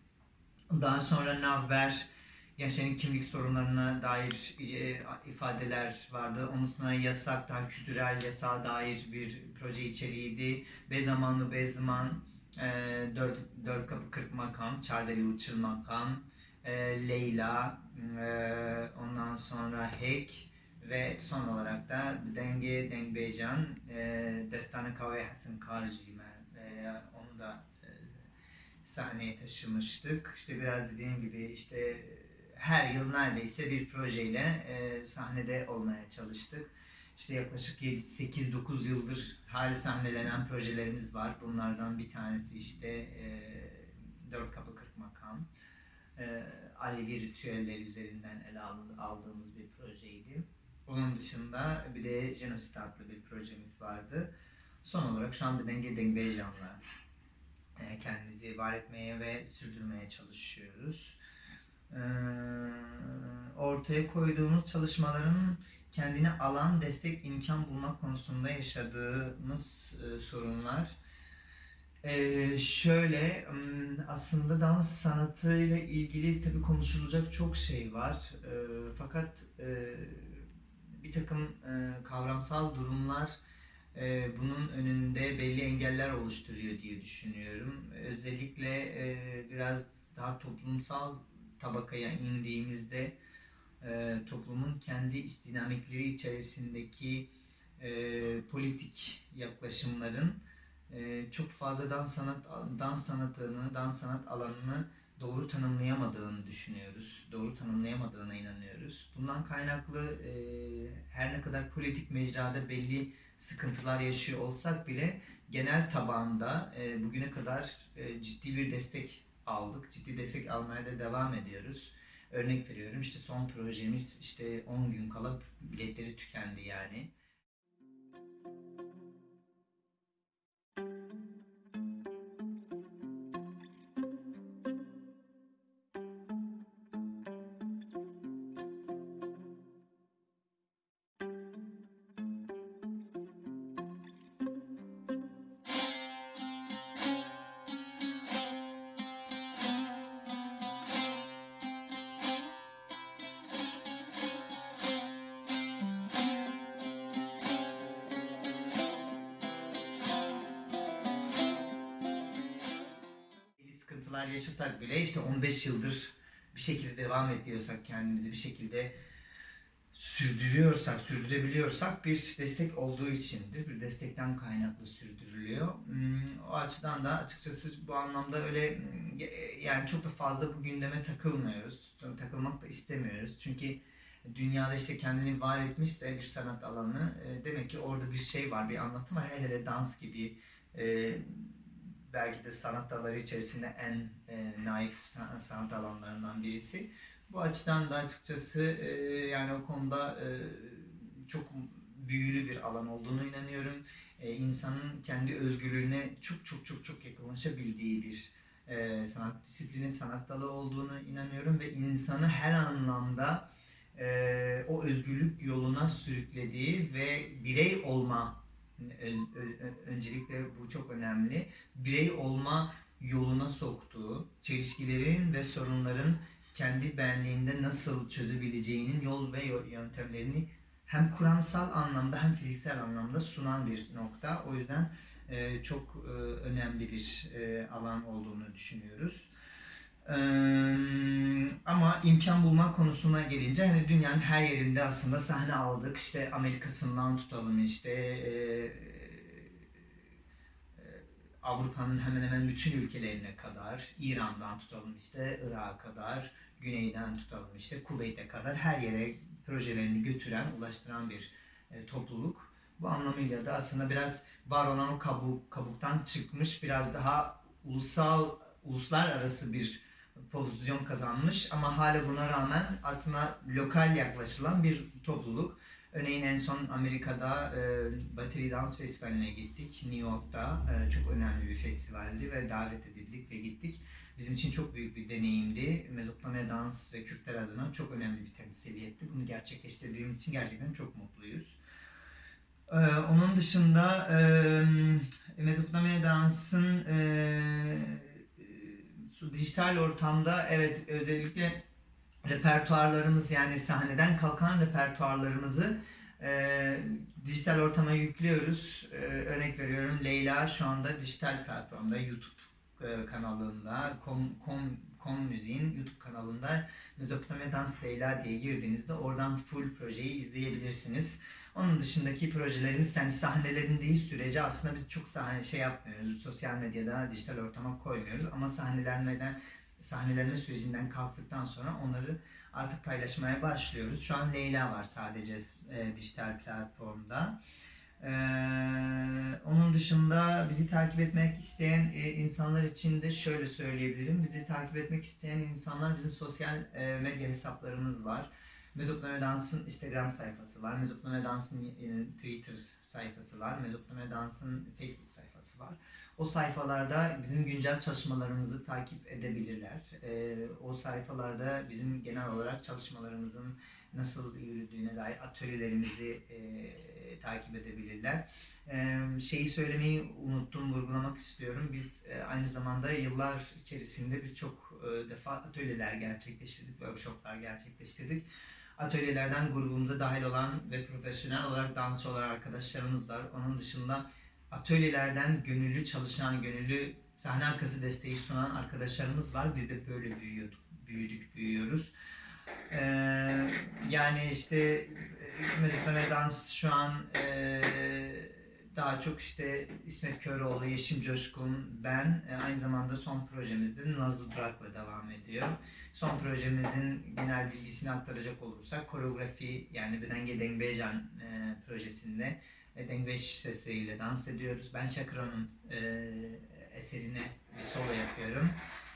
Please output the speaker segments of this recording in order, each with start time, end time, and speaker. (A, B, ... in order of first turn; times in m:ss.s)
0:00.7-0:28.2 A
0:28.8-0:45.5 A
0:46.2-0:54.3 A
0:54.8-0:56.8 A
0:57.8-1:01.2 A
1:01.9-1:11.0 A
1:12.0-1:23.4 A
1:23.9-1:33.2 A
1:33.8-2:07.1 A
2:43.6-2:48.9 A
2:49.9-3:59.3 A
4:00.0-4:09.8 A
4:10.8-4:51.6 A
4:52.7-5:01.6 A
5:02.2-5:37.4 A
5:38.0-6:18.2 A
6:18.8-6:31.9 A
6:32.7-6:58.6 A